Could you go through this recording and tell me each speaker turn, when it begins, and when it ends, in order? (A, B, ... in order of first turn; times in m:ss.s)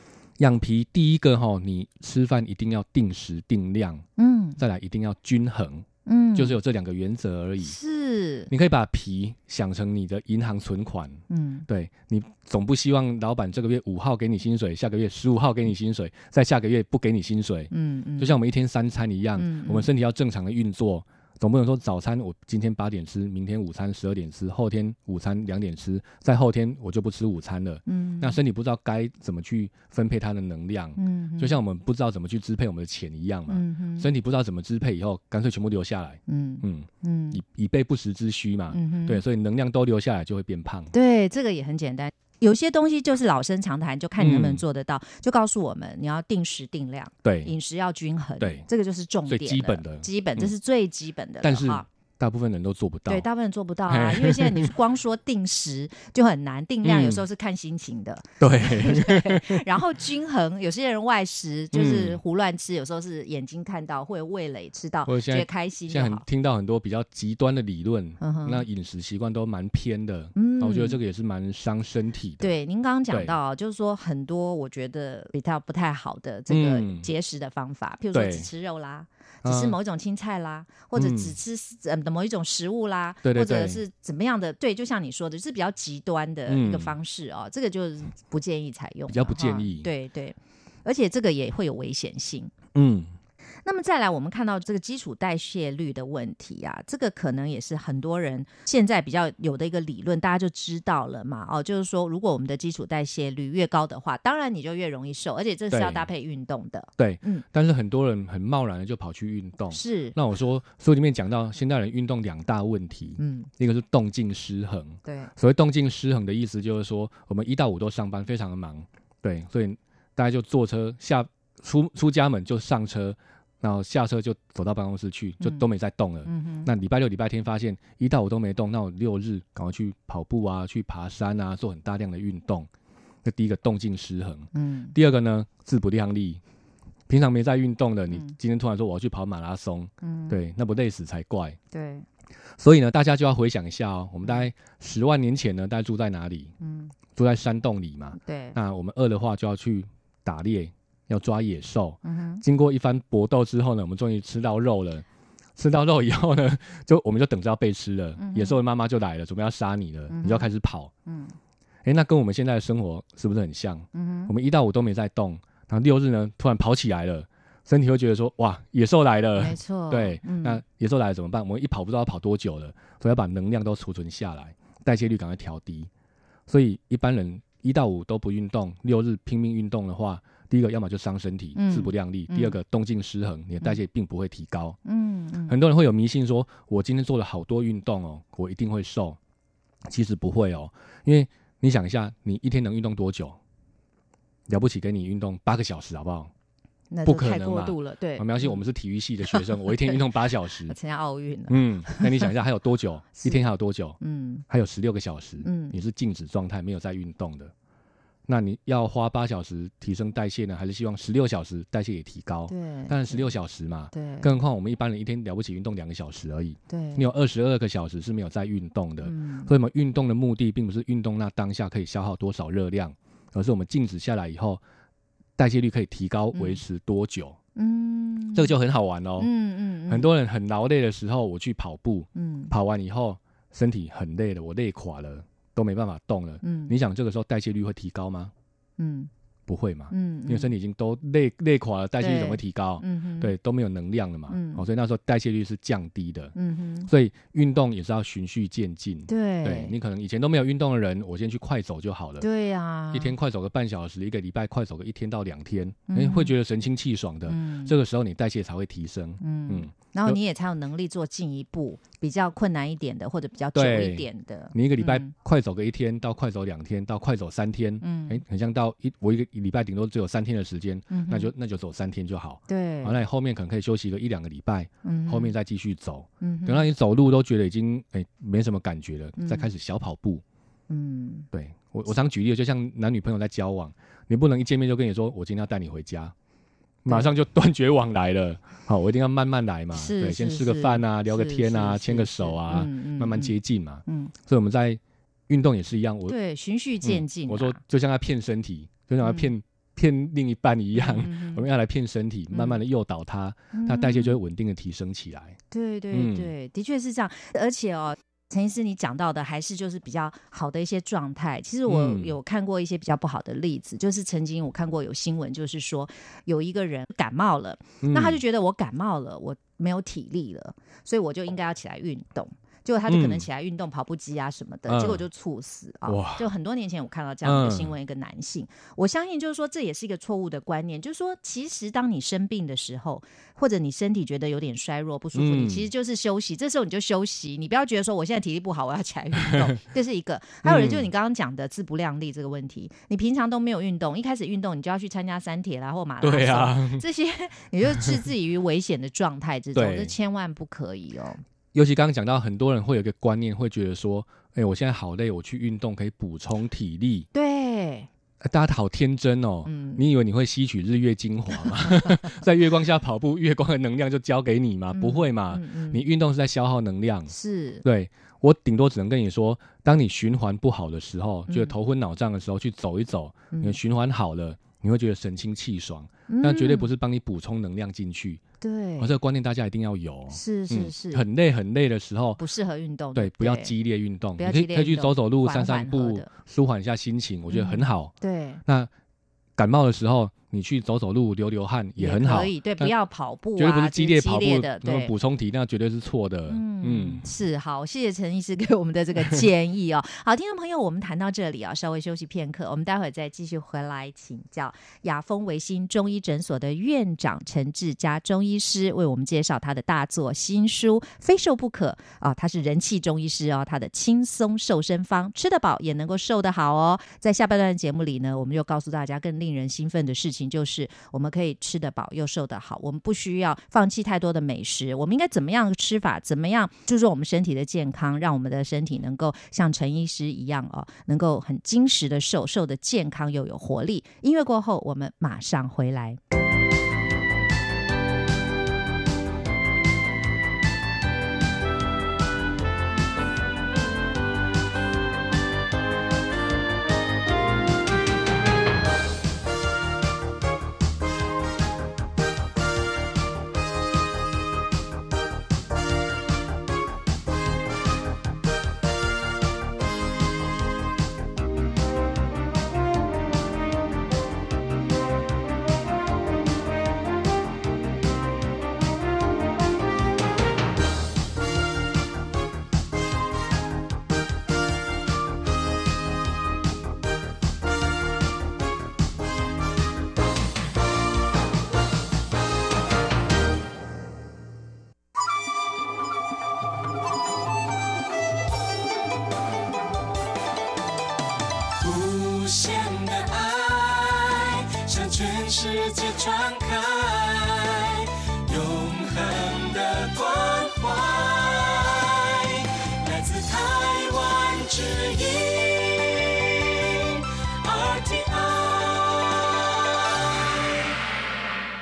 0:00.4-0:04.0 A
0:04.2-0:04.6 B
0:04.6-0:07.8 A
0:06.0-0:06.5 B
0:07.6-0:08.5 B
0:08.5-0:40.9 A
0:11.3-0:11.7 B
0:17.7-0:18.4 B
0:19.4-0:19.9 B
0:27.9-0:28.4 B
0:31.0-0:31.6 B
0:33.5-0:34.1 B
0:36.3-0:37.4 B
0:38.7-0:39.2 B
0:40.9-0:51.8 B
0:44.2-0:44.6 A
0:47.2-0:47.5 A
0:48.4-0:48.6 A
0:49.3-0:50.5 A
0:51.4-0:53.3 A
0:53.1-1:06.2 B
0:53.9-0:54.7 A
0:56.8-0:57.2 A
0:58.4-0:59.6 A
1:01.7-1:02.2 A
1:05.1-1:12.5 A
1:08.2-1:08.6 B
1:10.3-1:11.0 B
1:12.4-1:32.5 B
1:16.5-1:17.1 A
1:18.1-1:18.5 A
1:19.4-1:19.8 A
1:20.9-1:21.4 A
1:23.2-1:23.8 A
1:26.5-1:27.0 A
1:29.1-1:29.9 A
1:32.7-1:33.1 A
1:33.6-1:47.4 B
1:45.7-1:46.0 A
1:47.0-2:12.7 A
1:49.7-1:50.2 B
1:53.2-1:53.5 B
1:55.0-1:55.3 B
2:06.2-2:06.7 B
2:13.2-2:16.4 A
2:14.5-2:14.9 B
2:17.1-2:21.6 A
2:18.1-2:18.4 B
2:20.0-2:20.4 B
2:21.7-2:22.0 B
2:22.6-2:26.5 A
2:26.6-2:26.9 B
2:27.2-2:35.0 A
2:28.1-2:28.6 B
2:32.0-2:32.4 B
2:35.6-2:40.9 A
2:38.2-2:38.6 B
2:40.1-2:40.5 B
2:41.0-2:41.3 B
2:41.8-2:55.9 A
2:43.9-2:44.3 B
2:49.4-2:50.6 B
2:56.5-3:04.8 A
3:01.6-3:02.5 B
3:04.8-3:05.5 B
3:05.5-3:09.2 A
3:09.9-3:13.4 A
3:14.5-3:16.3 A
3:16.9-3:18.6 B
3:17.0-3:20.8 A
3:19.3-3:20.0 B
3:20.6-3:22.3 B
3:21.5-3:27.5 A
3:23.1-3:24.4 B
3:25.4-3:25.8 B
3:28.3-3:44.6 A
3:32.5-3:33.3 B
3:33.9-3:34.4 B
3:36.7-3:37.0 B
3:39.0-3:39.5 B
3:45.4-3:47.4 A
3:46.3-3:46.6 B
3:47.6-3:48.5 B
3:48.3-3:49.3 A
3:49.2-3:50.1 B
3:49.9-3:58.3 A
3:52.2-3:52.5 B
3:56.4-3:56.7 B
3:58.8-3:59.1 B
3:59.5-4:06.3 A
3:59.9-4:00.5 B
4:02.0-4:03.3 B
4:04.3-4:04.6 B
4:06.3-4:06.9 B
4:06.9-4:12.3 A
4:09.1-4:09.7 B
4:12.2-4:13.1 B
4:12.9-4:20.2 A
4:15.9-4:16.3 B
4:17.3-4:17.8 B
4:19.2-4:25.1 B
4:23.5-4:40.2 A
4:27.8-4:28.2 B
4:30.9-4:31.3 B
4:32.5-4:33.0 B
4:34.8-4:35.3 B
4:36.2-4:36.7 B
4:39.2-4:39.5 B
4:40.7-4:41.3 B
4:41.3-4:46.1 A
4:46.8-4:56.1 A
4:49.7-4:54.1 B
4:56.1-4:57.6 B
4:56.8-5:05.4 A
4:59.0-4:59.3 B
5:00.7-5:01.4 B
5:02.3-5:02.6 B
5:03.5-5:04.2 B
5:05.5-5:51.2 B
5:05.9-5:06.3 A
5:11.7-5:12.2 A
5:17.8-5:18.2 A
5:22.9-5:23.2 A
5:24.7-5:25.0 A
5:25.8-5:26.3 A
5:27.2-5:27.7 A
5:35.1-5:35.7 A
5:40.4-5:40.9 A
5:46.0-5:46.8 A
5:47.7-5:48.0 A
5:49.5-5:49.9 A
5:51.5-5:57.1 A
5:57.1-5:57.9 B
5:58.2-6:07.1 A
5:59.4-5:59.8 B
6:04.7-6:05.8 B
6:07.1-6:07.6 B
6:07.6-6:18.2 A
6:11.3-6:11.5 B
6:16.1-6:16.7 B
6:18.4-6:18.9 B
6:18.8-6:22.2 A
6:20.1-6:21.0 B
6:22.2-6:23.5 B
6:22.9-6:27.9 A
6:24.2-6:26.1 B
6:27.3-6:28.4 B
6:29.4-6:32.7 A
6:31.8-6:34.9 B
6:33.4-6:37.0 A
6:36.3-7:16.0 B
8:11.6-8:29.9 C